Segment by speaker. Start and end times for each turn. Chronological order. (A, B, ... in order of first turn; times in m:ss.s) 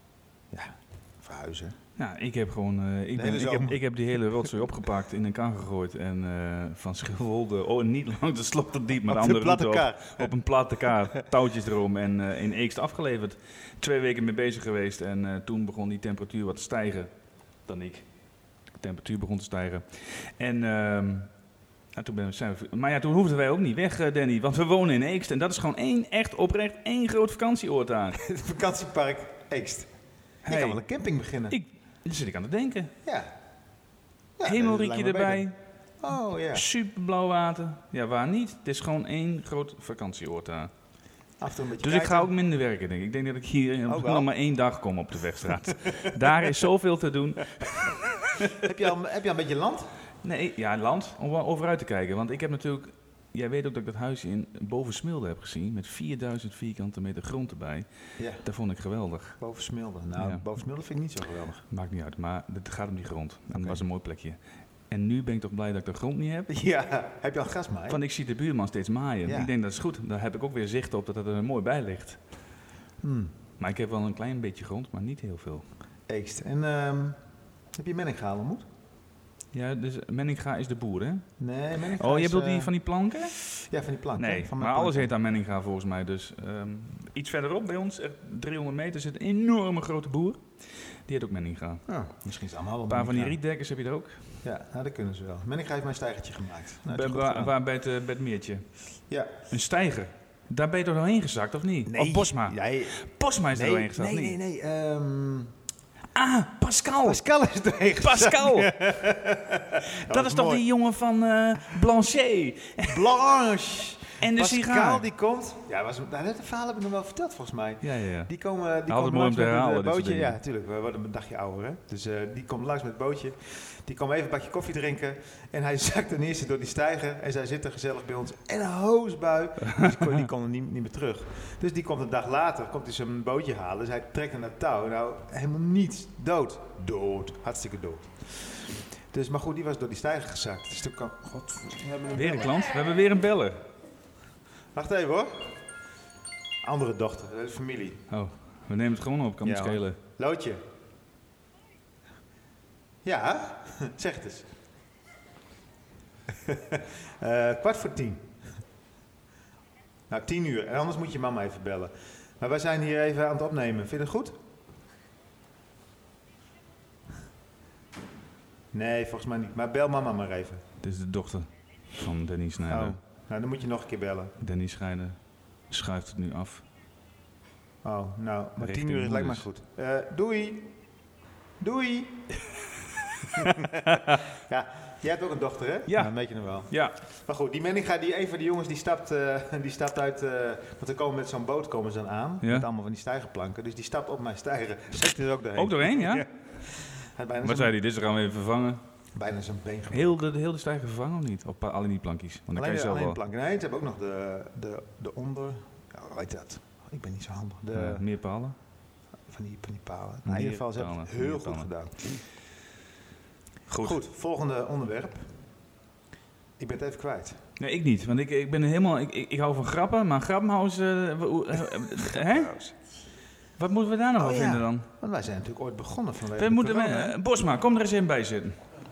0:00.5-0:01.8 A
0:02.0-0:21.3 B
0:03.1-0:04.5 A
0:09.1-0:11.2 A
0:21.9-0:28.2 B
0:28.1-0:29.9 A
0:30.4-0:31.6 A
0:30.4-0:30.8 B
0:31.5-0:32.9 B
0:33.0-0:33.3 A
0:34.4-0:36.6 A
0:34.4-0:40.7 B
0:41.4-0:42.3 A
0:41.8-0:48.0 B
0:43.9-0:44.3 A
0:48.5-0:49.9 A
0:50.2-0:59.4 B
0:58.2-0:58.5 A
0:59.4-1:01.6 A
1:00.2-1:00.4 B
1:01.7-1:06.5 B
1:03.5-1:03.8 A
1:06.5-1:08.0 A
1:07.9-1:12.4 B
1:09.2-1:09.5 A
1:13.0-1:13.3 A
1:13.6-1:15.7 B
1:16.1-1:17.2 A
1:17.7-1:18.6 A
1:19.5-1:21.3 B
1:21.4-1:22.7 A
1:22.0-1:30.5 B
1:23.3-1:25.1 A
1:31.0-1:31.8 B
1:31.8-1:33.4 A
1:32.9-1:34.2 B
1:34.4-1:37.5 A
1:36.9-1:38.7 B
1:39.5-1:44.4 B
1:41.8-1:45.5 A
1:46.1-1:47.2 B
1:47.0-1:50.6 A
1:48.0-1:48.7 B
1:50.1-1:53.0 B
1:52.8-2:22.7 A
1:54.2-1:55.0 B
1:57.8-1:58.3 B
1:58.9-2:00.4 B
2:09.7-2:10.2 B
2:22.1-2:23.6 B
2:24.7-2:25.6 A
2:26.6-2:28.0 A
2:28.1-2:30.0 B
2:29.4-2:30.6 A
2:33.0-2:34.5 A
2:36.4-2:38.4 A
2:40.1-2:44.4 A
2:48.7-2:50.6 A
2:50.8-2:53.0 B
2:52.7-2:54.3 A
2:54.4-2:55.2 B
2:55.7-2:56.6 B
2:57.8-3:00.7 A
2:58.6-2:59.4 B
3:01.6-3:02.3 A
3:03.4-3:17.7 A
3:03.9-3:04.2 B
3:05.9-3:06.9 B
3:15.6-3:16.3 B
3:17.4-3:18.8 B
3:19.1-3:20.2 A
3:19.9-3:23.2 B
3:22.5-3:28.0 A
3:27.7-3:28.5 B
3:29.3-3:32.0 A
3:30.2-3:31.7 B
3:33.7-3:34.0 B
3:33.8-3:35.4 A
3:36.6-3:37.4 A
3:37.6-3:42.6 B
3:42.1-3:42.7 A
3:43.6-3:44.9 B
3:44.2-3:47.2 A
3:46.4-3:48.6 B